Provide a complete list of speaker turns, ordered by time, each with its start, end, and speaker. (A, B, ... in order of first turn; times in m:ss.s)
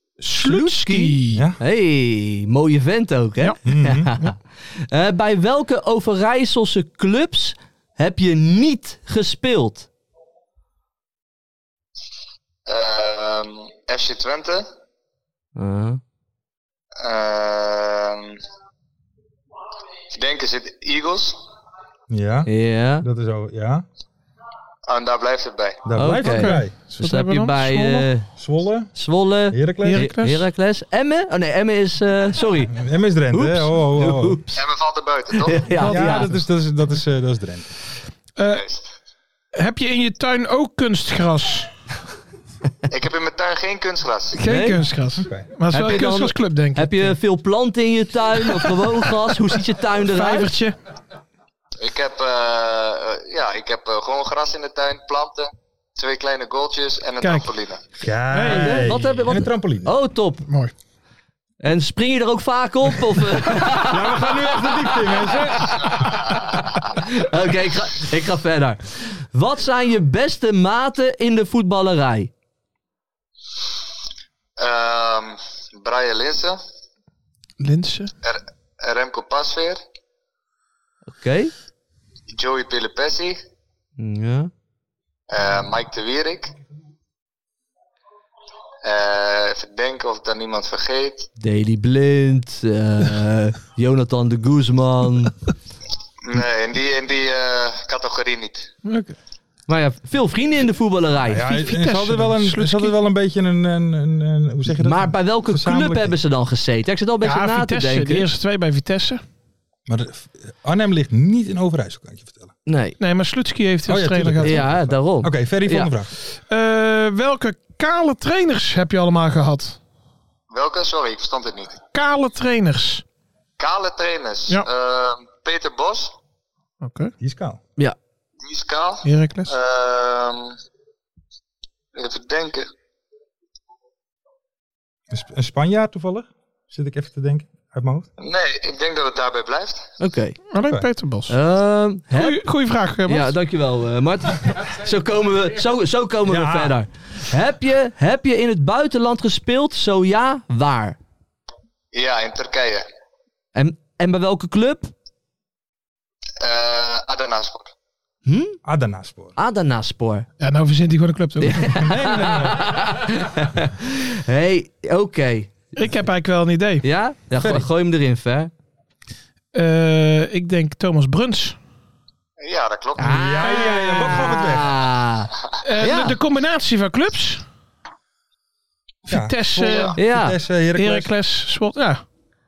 0:00.2-0:01.4 A
0:00.4-0:09.9 B
0:01.3-0:01.6 C
0:03.6-0:04.1 C
0:12.7-0:14.7 D
0:15.6-0:16.0 B
0:17.0-0:18.4 D
0:20.1-0:21.4 D
0:22.1-0:22.5 C
0:22.5-0:23.1 B
0:23.0-0:23.8 C
0:24.9-0:25.8 D
0:25.8-0:26.7 C
0:26.0-0:28.3 B
0:26.2-0:28.1 A
0:28.4-0:28.9 C
0:28.9-0:32.8 B
0:29.5-0:30.1 C
0:29.8-0:30.5 A
0:32.7-0:34.4 C
0:33.3-0:34.6 B
0:34.6-0:35.7 D
0:35.4-0:36.3 B
0:35.8-0:36.2 A
0:35.9-0:37.7 C
0:38.4-0:38.6 A
0:38.4-0:38.9 D
0:39.5-0:41.7 A
0:42.9-0:44.4 D
0:44.4-0:47.1 A
0:44.4-0:44.8 B
0:45.7-0:50.5 B
0:49.9-0:50.8 A
0:51.8-0:57.8 D
0:57.2-0:57.5 A
0:58.0-0:59.9 C
0:58.3-0:59.0 A
0:58.4-1:00.5 B
1:00.5-1:00.7 A
1:01.6-1:04.6 B
1:03.6-1:06.1 C
1:05.6-1:06.0 B
1:07.0-1:12.3 B
1:14.6-1:16.6 D
1:17.6-1:18.1 A
1:18.2-1:19.8 D
1:21.1-1:21.5 B
1:22.3-1:23.4 D
1:24.0-1:24.5 B
1:25.3-1:26.5 D
1:28.8-1:31.3 D
1:31.4-1:35.4 B
1:36.2-1:38.7 D
1:38.8-1:39.2 A
1:39.7-1:41.5 B
1:41.2-1:46.1 C
1:41.5-1:43.0 A
1:44.7-1:48.3 B
1:47.2-1:49.2 A
1:49.9-1:52.5 C
1:52.7-1:53.0 B
1:53.0-1:54.7 A
1:53.9-1:56.1 C
1:54.4-1:55.9 B
1:56.5-1:59.8 A
2:00.5-2:01.8 D
2:01.9-2:03.0 A
2:03.6-2:06.2 D
2:06.8-2:07.1 A
2:07.2-2:07.6 C
2:08.4-2:10.6 D
2:09.0-2:09.5 A
2:11.9-2:12.7 D
2:15.1-2:18.1 C
2:18.2-2:19.9 D
2:20.0-2:20.4 B
2:20.5-2:21.4 A
2:21.3-2:22.4 B
2:22.1-2:23.3 A
2:23.1-2:31.0 B
2:26.3-2:26.8 C
2:31.9-2:32.9 D
2:33.6-2:34.9 B
2:36.4-2:37.7 D
2:38.3-2:38.6 B
2:38.6-2:39.3 C
2:39.4-2:40.3 B
2:40.4-2:41.8 A
2:41.4-2:45.5 B
2:41.8-2:42.7 C
2:45.8-2:46.8 A
2:46.8-2:48.5 B
2:47.4-2:47.7 C
2:49.5-2:51.6 A
2:52.4-2:53.2 D
2:53.0-2:56.2 B
2:53.1-2:54.7 C
2:53.4-2:54.4 A
2:55.6-2:57.4 A
2:59.1-3:01.1 C
2:59.1-3:00.0 A
3:00.0-3:00.4 B
3:00.8-3:02.0 A